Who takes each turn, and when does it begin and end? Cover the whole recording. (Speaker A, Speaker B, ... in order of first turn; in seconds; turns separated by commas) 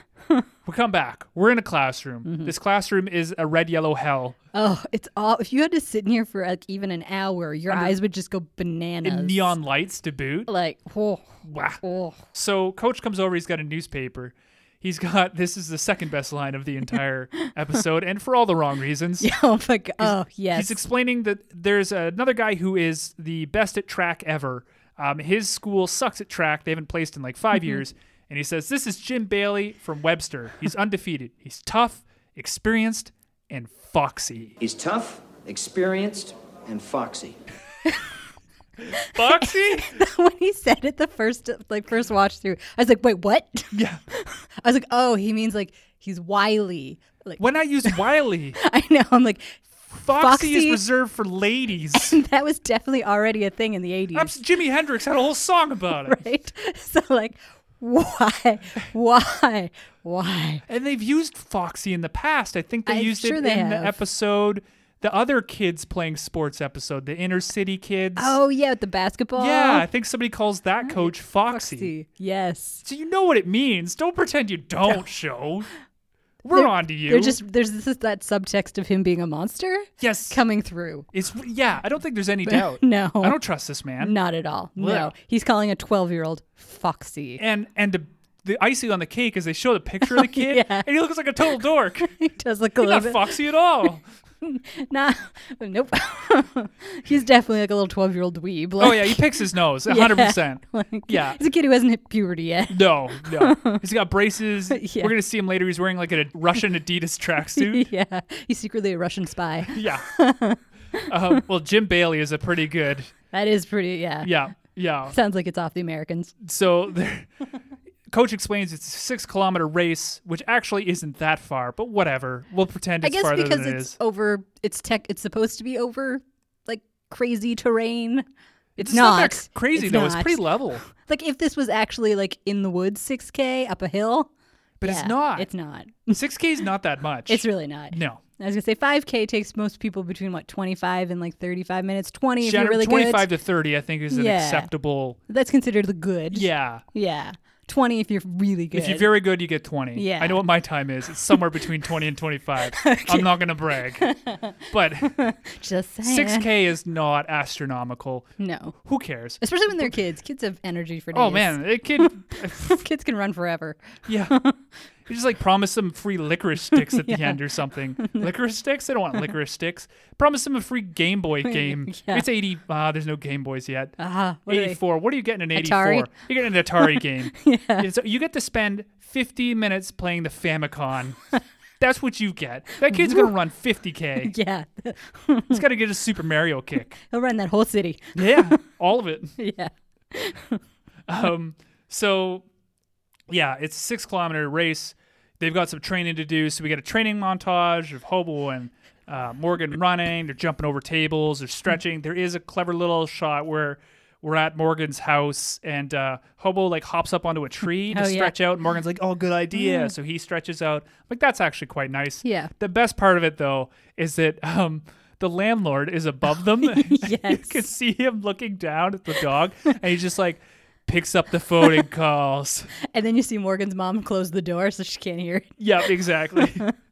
Speaker A: 0.7-4.4, Speaker B: 2.2-2.5, Speaker B: 4.5-9.6, Speaker A: 7.7-8.0, Speaker A: 9.0-10.5, Speaker B: 10.5-12.2, Speaker A: 11.4-19.3, Speaker B: 19.2-20.8, Speaker A: 20.0-34.5, Speaker C: 34.6-37.4, Speaker B: 38.9-48.0, Speaker A: 39.0-39.9, Speaker A: 43.7-44.0, Speaker A: 47.4-48.6, Speaker B: 48.5-50.8, Speaker A: 49.9-52.2, Speaker B: 51.9-54.4, Speaker A: 54.1-56.2, Speaker B: 56.0-60.6, Speaker A: 60.7-68.4, Speaker B: 62.9-64.0, Speaker B: 68.2-69.9, Speaker A: 69.4-71.9, Speaker B: 70.8-72.8, Speaker A: 72.8-75.7, Speaker A: 76.4-77.4, Speaker B: 76.5-81.1, Speaker A: 80.0-80.4, Speaker A: 81.1-84.2, Speaker B: 82.5-83.4, Speaker B: 84.0-87.4, Speaker A: 84.8-85.1, Speaker A: 87.4-92.1, Speaker B: 90.0-90.9, Speaker B: 92.0-93.4, Speaker A: 92.8-94.0, Speaker B: 94.4-99.3, Speaker A: 98.8-101.4, Speaker B: 99.9-103.8, Speaker A: 102.7-107.9, Speaker B: 104.7-105.1, Speaker B: 107.6-111.3, Speaker A: 109.7-110.1, Speaker A: 111.1-113.1, Speaker B: 113.3-114.3, Speaker A: 114.2-115.2, Speaker B: 115.1-116.3, Speaker A: 116.4-117.3, Speaker A: 118.1-124.0, Speaker B: 123.0-128.2, Speaker B: 128.8-134.3, Speaker A: 128.8-130.8, Speaker A: 134.8-135.5, Speaker B: 134.8-136.2, Speaker A: 136.1-138.2, Speaker B: 137.3-143.3, Speaker A: 142.4-145.2, Speaker B: 144.1-144.7, Speaker B: 145.3-149.2, Speaker A: 146.3-146.8, Speaker A: 148.7-154.1, Speaker B: 149.9-150.4, Speaker B: 152.6-153.3, Speaker B: 154.0-156.5, Speaker A: 154.7-155.2, Speaker A: 156.0-158.3, Speaker B: 158.4-158.8, Speaker A: 158.8-160.0, Speaker B: 159.4-164.6, Speaker A: 161.1-162.8, Speaker A: 164.1-164.4, Speaker A: 165.1-173.9, Speaker B: 166.8-167.5, Speaker B: 168.0-168.3, Speaker B: 171.4-172.2, Speaker B: 174.0-174.8, Speaker A: 174.5-181.2, Speaker B: 175.5-176.1, Speaker B: 176.8-177.9, Speaker A: 181.8-184.3, Speaker B: 182.9-183.3, Speaker B: 184.2-185.6, Speaker A: 185.5-187.0, Speaker B: 187.0-188.6, Speaker A: 188.2-189.3, Speaker B: 189.4-190.6, Speaker A: 191.1-192.4, Speaker A: 193.3-222.7, Speaker B: 207.9-208.3, Speaker B: 209.6-209.9, Speaker B: 212.2-212.5, Speaker B: 216.6-217.7, Speaker B: 222.8-226.7, Speaker A: 225.6-226.7